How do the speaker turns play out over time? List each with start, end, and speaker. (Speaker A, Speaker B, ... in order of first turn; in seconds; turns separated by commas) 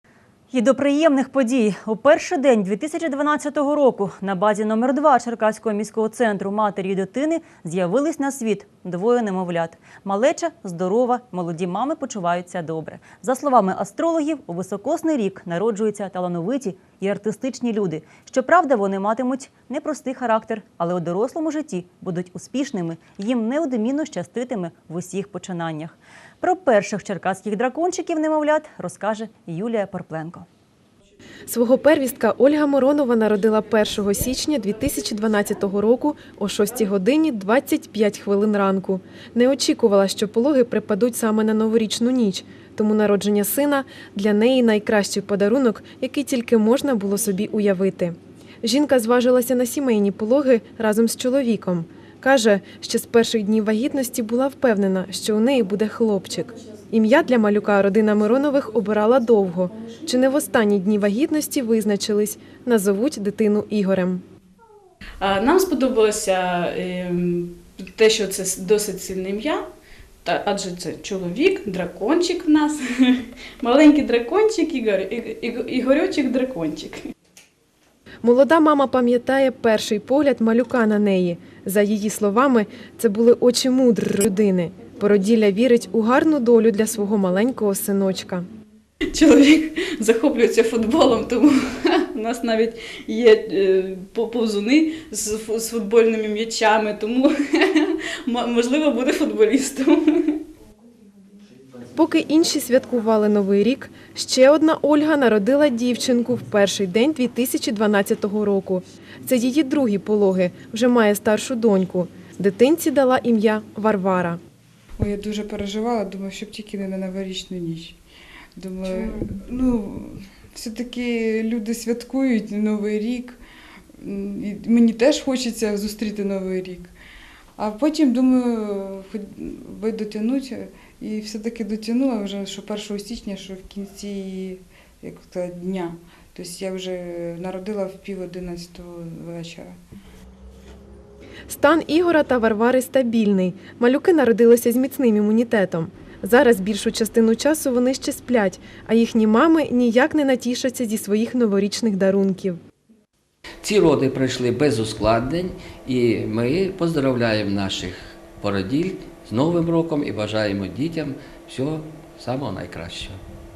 Speaker A: 0.5-30.5, Speaker B: 31.5-64.2, Speaker C: 65.2-69.7, Speaker C: 70.2-77.0, Speaker B: 78.2-88.5, Speaker C: 89.1-100.4, Speaker B: 101.9-114.4, Speaker D: 115.0-118.0, Speaker D: 118.6-123.4, Speaker B: 118.9-119.1, Speaker D: 124.0-126.9, Speaker D: 127.6-139.8, Speaker B: 141.5-152.6, Speaker E: 153.6-163.2